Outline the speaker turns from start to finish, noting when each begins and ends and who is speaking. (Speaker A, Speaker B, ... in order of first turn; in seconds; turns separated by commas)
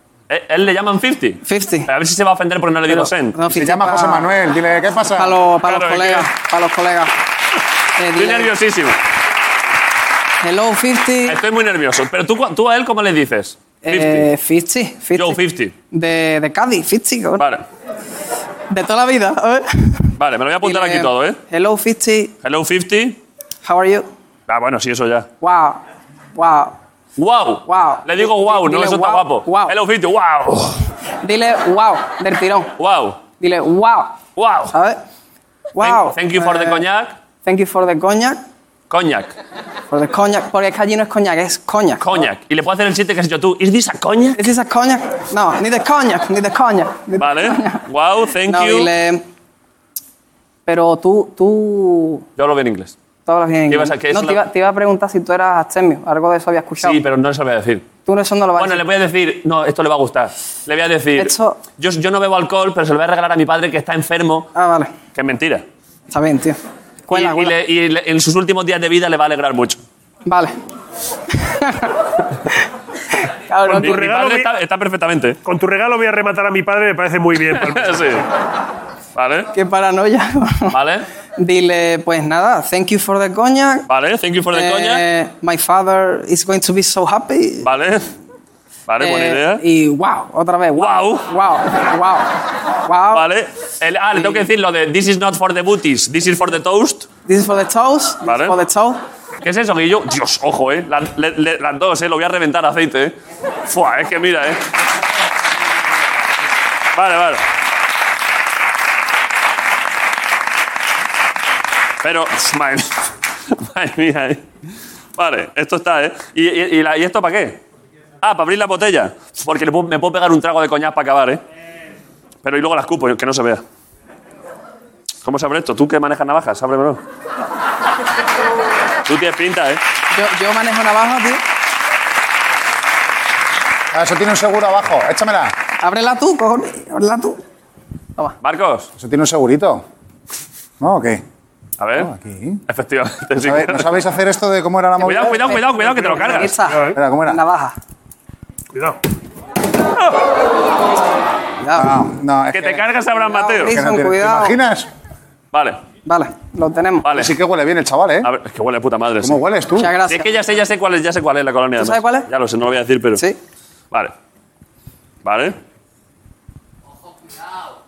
Speaker A: 0.3-3.4, Speaker B: 1.4-1.9, Speaker B: 2.9-4.3, Speaker C: 3.5-5.4, Speaker B: 5.1-7.1, Speaker A: 5.6-6.3, Speaker B: 8.0-8.5, Speaker A: 8.1-9.0, Speaker B: 10.4-11.4, Speaker A: 11.3-14.3, Speaker B: 13.8-15.4, Speaker A: 15.1-15.8, Speaker B: 15.9-17.4, Speaker A: 17.4-17.6, Speaker B: 18.7-20.1, Speaker A: 20.2-21.4, Speaker B: 20.6-22.3, Speaker A: 22.4-23.2, Speaker B: 23.6-24.1, Speaker A: 24.5-25.3, Speaker B: 25.4-25.8, Speaker B: 26.4-26.8, Speaker A: 27.2-30.8, Speaker B: 27.7-29.7, Speaker B: 31.2-32.7, Speaker A: 32.8-33.2, Speaker B: 33.4-34.1, Speaker A: 34.4-34.8, Speaker B: 34.7-35.0, Speaker B: 35.8-36.8, Speaker A: 35.8-37.1, Speaker B: 37.4-38.4, Speaker A: 38.9-39.3, Speaker B: 39.9-42.0, Speaker A: 42.0-44.4, Speaker B: 44.4-47.8, Speaker A: 47.2-48.9, Speaker B: 48.4-49.2, Speaker B: 50.7-52.2, Speaker A: 52.4-52.9, Speaker B: 53.3-57.0, Speaker A: 53.7-54.4, Speaker A: 56.8-57.9, Speaker B: 58.1-58.9, Speaker A: 58.6-64.5, Speaker B: 61.2-61.6, Speaker B: 64.6-64.9, Speaker A: 65.1-65.6, Speaker B: 66.1-66.6, Speaker B: 67.1-67.5, Speaker A: 67.1-69.8, Speaker B: 70.3-70.5, Speaker B: 71.3-71.9, Speaker B: 73.5-74.0, Speaker D: 73.7-74.5, Speaker A: 73.7-75.4, Speaker D: 75.4-78.2, Speaker A: 77.5-78.2, Speaker A: 79.1-79.5, Speaker B: 79.5-80.8, Speaker A: 80.7-81.0, Speaker B: 81.4-83.8, Speaker A: 83.9-85.0, Speaker B: 84.5-87.7, Speaker A: 87.6-88.1, Speaker A: 88.9-89.6, Speaker B: 89.0-92.3, Speaker A: 90.8-91.3, Speaker B: 92.9-93.3, Speaker A: 93.1-97.1, Speaker B: 94.2-94.4, Speaker B: 97.3-99.0, Speaker A: 98.2-98.6, Speaker A: 99.4-103.1, Speaker A: 103.7-104.6, Speaker A: 106.9-107.4, Speaker A: 112.0-114.4, Speaker A: 115.2-117.6, Speaker A: 118.2-121.4, Speaker A: 122.4-123.6, Speaker A: 125.2-127.0, Speaker A: 129.1-129.8, Speaker B: 130.1-131.4, Speaker C: 133.9-135.5, Speaker B: 135.8-137.4, Speaker A: 138.4-138.9, Speaker C: 139.0-139.8, Speaker C: 140.8-141.2, Speaker A: 141.8-142.1, Speaker C: 141.9-142.6, Speaker A: 142.7-143.9, Speaker C: 143.4-145.4, Speaker A: 145.0-146.6, Speaker B: 145.0-147.8, Speaker C: 146.9-147.4, Speaker B: 151.6-152.0, Speaker C: 151.8-152.8, Speaker A: 152.5-153.8, Speaker B: 153.2-154.6, Speaker C: 153.7-154.9, Speaker A: 155.5-155.8, Speaker B: 156.1-157.1, Speaker A: 157.0-157.3, Speaker C: 157.1-158.3, Speaker A: 158.2-159.4, Speaker C: 159.2-159.9, Speaker B: 159.8-160.3, Speaker A: 160.1-163.2, Speaker B: 161.8-162.3, Speaker A: 165.2-165.6